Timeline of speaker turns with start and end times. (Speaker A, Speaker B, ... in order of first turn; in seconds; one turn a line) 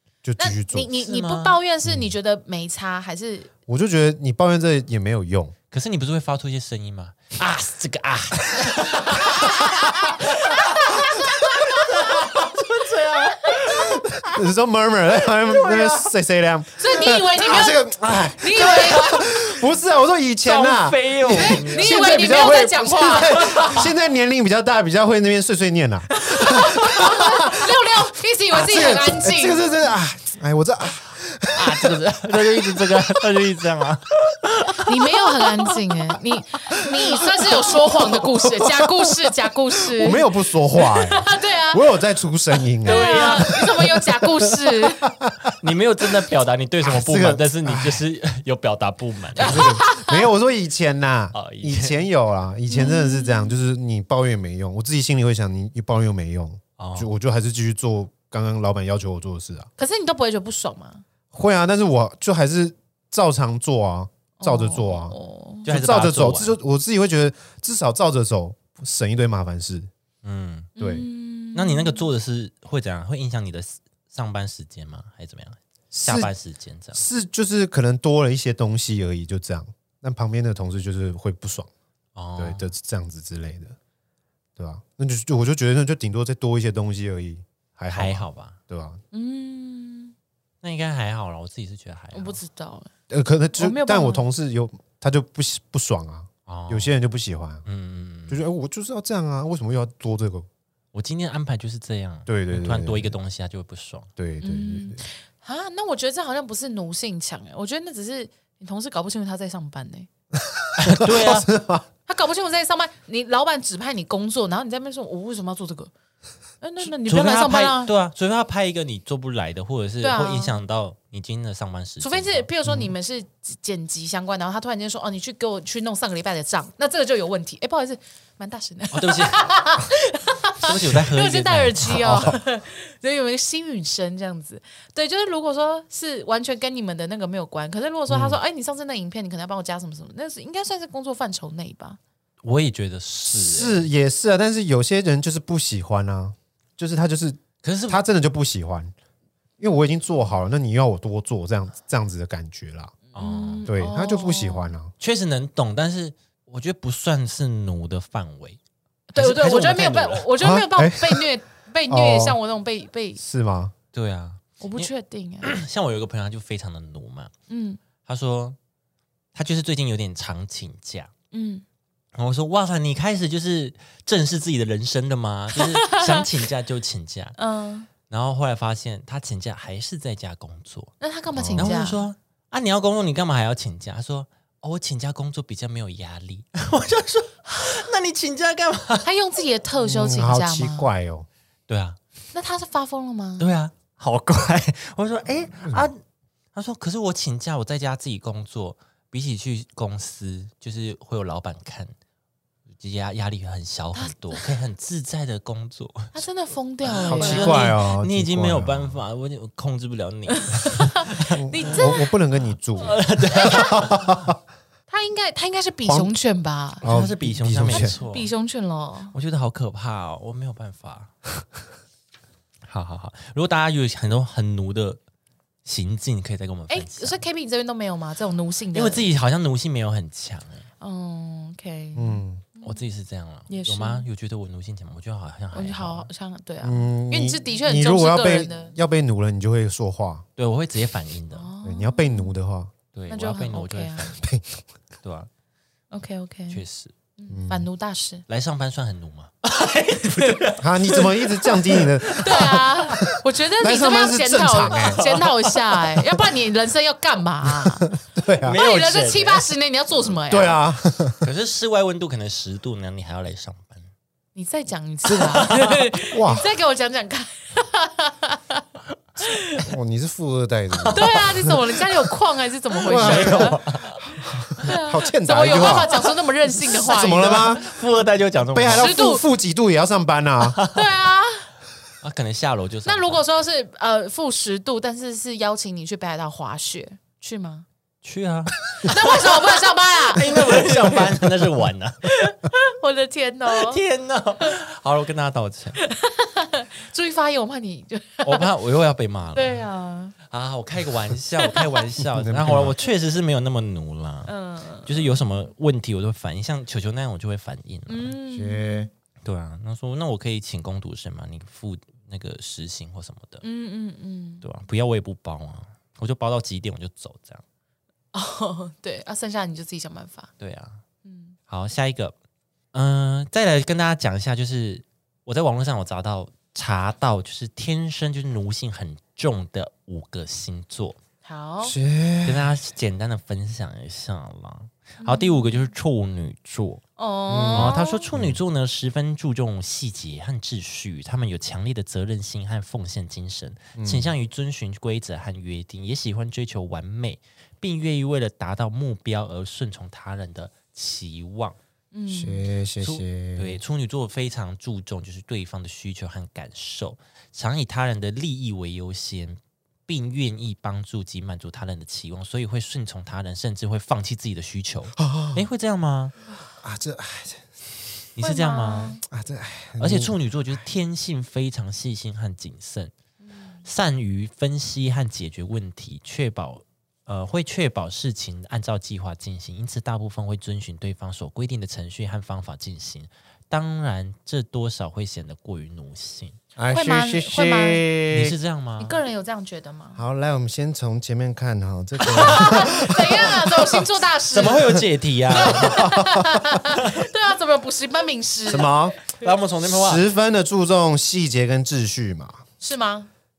Speaker A: 0.2-0.9
Speaker B: 0.4-3.5
Speaker C: 1.0-1.6
Speaker A: 1.9-2.1
Speaker A: 3.7-5.5
Speaker C: 5.7-14.4
Speaker B: 9.7-11.2
Speaker A: 13.9-27.9
Speaker C: 15.2-16.1
Speaker B: 16.8-19.3
Speaker C: 18.5-19.1
Speaker C: 20.4-22.5
Speaker B: 21.3-23.9
Speaker C: 23.4-23.8
Speaker B: 26.2-29.7
Speaker A: 28.5-33.2
Speaker C: 31.5-35.2
Speaker B: 34.8-42.0
Speaker A: 37.2-39.2
Speaker A: 39.9-45.5
Speaker B: 42.8-45.1
Speaker C: 42.9-43.6
Speaker C: 45.6-49.7
Speaker A: 46.8-48.0
Speaker B: 49.4-50.3
Speaker A: 49.4-59.7
Speaker C: 51.3-52.0
Speaker B: 52.7-53.6
Speaker C: 56.8-57.1
Speaker B: 59.8-61.0
Speaker A: 61.3-69.9
Speaker B: 64.4-65.7
Speaker C: 65.7-66.6
Speaker C: 70.2-70.7
Speaker B: 70.8-72.1
Speaker A: 70.8-71.1
Speaker C: 71.5-77.0
Speaker A: 75.9-76.3
Speaker A: 76.9-81.7
Speaker C: 82.2-82.7
Speaker A: 82.4-83.8
Speaker A: 84.6-89.0
Speaker C: 87.9-88.6
Speaker B: 89.1-90.1
Speaker C: 90.6-92.4
Speaker B: 92.1-92.9
Speaker A: 93.1-97.7
Speaker B: 93.5-94.3
Speaker C: 96.5-96.9
Speaker C: 97.7-98.4
Speaker A: 98.3-100.5
Speaker C: 100.9-104.1
Speaker A: 102.3-103.2
Speaker A: 104.2-105.0
Speaker B: 104.4-110.1
Speaker A: 110.4-111.9
Speaker C: 110.8-111.5
Speaker B: 112.1-115.9
Speaker B: 116.6-117.9
Speaker C: 116.8-122.5
Speaker B: 120.0-120.6
Speaker B: 122.0-142.0
Speaker A: 122.7-122.9
Speaker C: 128.9-129.5
Speaker C: 130.6-132.2
Speaker A: 131.8-132.4
Speaker A: 138.1-138.4
Speaker C: 142.4-143.9
Speaker A: 143.3-148.9
Speaker C: 147.6-148.0
Speaker A: 149.6-153.0
Speaker B: 153.1-154.8
Speaker C: 153.2-153.7
Speaker A: 153.7-154.9
Speaker C: 155.0-158.6
Speaker B: 159.1-163.2
Speaker C: 159.2-160.3
Speaker A: 160.4-161.3
Speaker A: 161.9-162.4
Speaker A: 163.2-163.7
Speaker C: 163.9-164.9
Speaker B: 164.6-165.5
Speaker C: 165.4-167.3
Speaker B: 167.5-167.8
Speaker C: 168.0-168.6
Speaker C: 169.3-171.1
Speaker B: 171.3-171.6
Speaker C: 172.2-177.4
Speaker B: 175.6-176.3
Speaker B: 177.4-177.9
Speaker C: 178.1-180.9
Speaker B: 181.0-182.1
Speaker A: 181.3-181.8
Speaker C: 181.6-189.1
Speaker B: 189.0-190.9
Speaker A: 189.8-191.3
Speaker C: 191.7-192.0
Speaker B: 192.3-193.5
Speaker C: 193.4-196.0
Speaker A: 195.6-195.9
Speaker C: 196.5-201.9
Speaker C: 202.8-206.2
Speaker B: 203.9-204.5
Speaker B: 206.1-207.8
Speaker C: 206.8-211.8
Speaker A: 207.0-209.0
Speaker B: 210.4-212.2
Speaker A: 211.3-214.3
Speaker C: 212.8-214.3
Speaker B: 213.3-213.8
Speaker B: 214.9-216.8
Speaker A: 215.8-216.1
Speaker A: 216.8-217.9
Speaker C: 216.8-218.3
Speaker B: 217.7-219.2
Speaker C: 219.1-221.1
Speaker C: 222.7-225.0
Speaker C: 225.7-227.2
Speaker B: 226.7-229.1
Speaker C: 228.7-230.7
Speaker B: 230.8-232.8
Speaker A: 231.9-232.4
Speaker C: 232.6-236.1
Speaker B: 233.5-234.1
Speaker B: 235.5-238.8
Speaker A: 236.6-240.2
Speaker C: 240.4-241.5
Speaker B: 241.3-242.3
Speaker A: 241.6-242.7
Speaker C: 242.9-244.2
Speaker B: 243.1-244.2
Speaker A: 244.2-244.6
Speaker C: 245.0-245.3
Speaker B: 245.9-246.6
Speaker C: 246.5-246.9
Speaker B: 247.2-248.2
Speaker A: 247.3-247.7
Speaker C: 248.3-253.2
Speaker A: 250.6-253.0
Speaker B: 252.2-260.6
Speaker A: 253.6-255.0
Speaker C: 254.9-256.0
Speaker A: 257.6-258.6
Speaker C: 258.4-259.5
Speaker A: 260.3-261.2
Speaker C: 261.2-263.9
Speaker B: 264.4-268.6
Speaker A: 265.1-265.5
Speaker C: 265.2-265.9
Speaker A: 266.1-266.5
Speaker B: 269.2-269.6
Speaker A: 269.6-271.6
Speaker C: 270.7-271.6
Speaker B: 270.9-273.6
Speaker C: 272.8-274.1
Speaker A: 272.9-276.0
Speaker B: 274.6-277.6
Speaker C: 275.5-276.0
Speaker A: 276.6-277.6
Speaker C: 277.3-278.9
Speaker A: 278.5-280.6
Speaker B: 278.7-279.2
Speaker C: 280.4-280.9
Speaker B: 280.7-281.5
Speaker C: 282.0-283.2
Speaker B: 282.9-287.7
Speaker C: 288.0-289.3
Speaker B: 288.8-291.1
Speaker C: 290.1-292.3
Speaker B: 292.1-293.8
Speaker C: 293.5-295.8
Speaker B: 295.8-298.5
Speaker C: 298.2-299.6
Speaker B: 299.4-300.2
Speaker C: 300.2-304.3
Speaker B: 301.4-301.8
Speaker A: 302.1-302.8
Speaker B: 304.3-305.2
Speaker C: 304.9-308.1
Speaker B: 307.9-308.9
Speaker A: 308.3-308.9
Speaker C: 309.2-313.4
Speaker B: 313.4-314.4
Speaker C: 314.4-317.4
Speaker B: 318.1-320.3
Speaker C: 320.4-320.8
Speaker B: 321.1-321.4
Speaker C: 321.5-322.1
Speaker C: 322.7-331.0
Speaker B: 331.2-331.8
Speaker A: 331.6-332.5
Speaker C: 332.2-336.8
Speaker B: 335.0-335.7
Speaker B: 337.0-338.1
Speaker A: 337.3-338.4
Speaker C: 337.5-351.6
Speaker A: 343.8-344.1
Speaker B: 351.9-352.5
Speaker A: 352.1-353.6
Speaker C: 352.8-366.1
Speaker A: 365.0-365.4
Speaker A: 366.6-367.9
Speaker C: 368.2-369.0
Speaker B: 368.2-369.0
Speaker A: 369.1-370.2
Speaker C: 369.8-372.9
Speaker B: 373.2-373.6
Speaker C: 373.6-386.4
Speaker A: 386.6-388.4
Speaker B: 386.7-387.9
Speaker C: 388.1-389.0
Speaker B: 388.8-390.0
Speaker A: 390.0-393.8
Speaker B: 392.1-399.2
Speaker C: 392.1-392.8
Speaker C: 394.3-395.8
Speaker A: 395.3-396.6
Speaker C: 396.7-397.0
Speaker A: 398.5-399.0
Speaker C: 399.2-400.1
Speaker A: 399.6-402.4
Speaker B: 402.6-403.1